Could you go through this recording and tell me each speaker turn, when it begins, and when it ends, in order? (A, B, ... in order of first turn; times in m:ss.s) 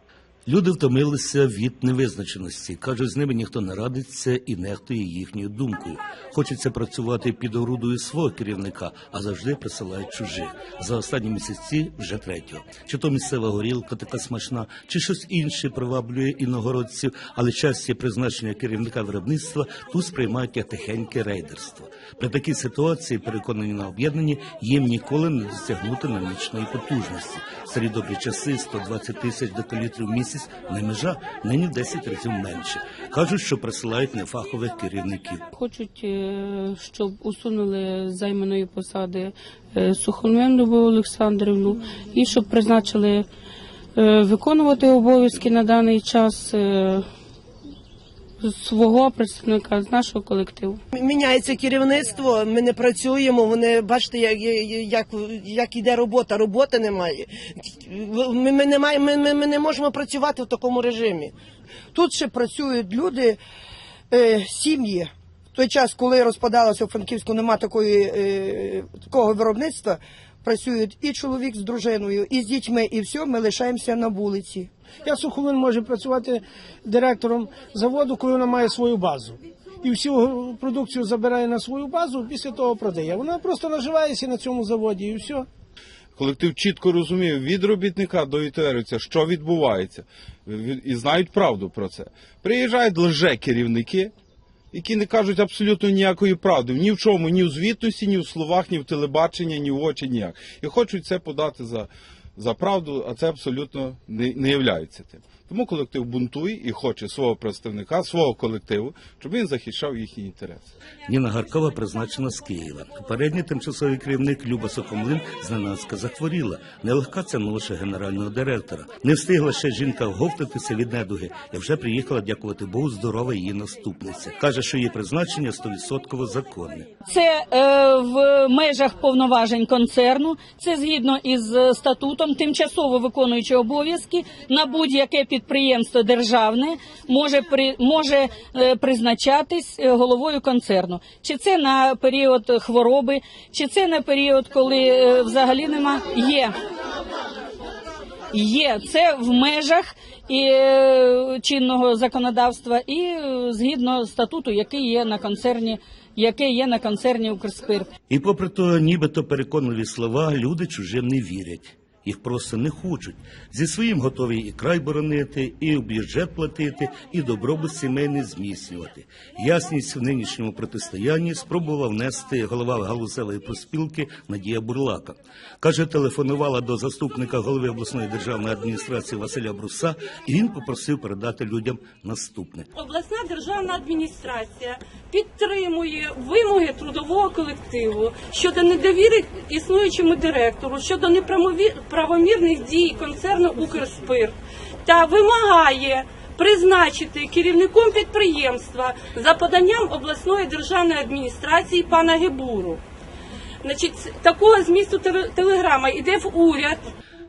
0:00.5-0:35.4 A
0:35.5-0:43.2 B
0:44.0-0:47.0 B
0:48.4-0:50.8 B
0:50.9-1:01.3 C
1:01.9-1:03.4 D
1:04.1-1:14.7 D
1:15.0-1:25.5 E
1:26.2-1:34.1 F
1:34.7-1:50.8 F
1:51.0-2:06.9 A
2:07.0-2:26.5 G
2:28.3-2:37.9 G
2:38.1-3:02.7 A
3:02.7-3:22.8 H
3:23.6-3:26.8 H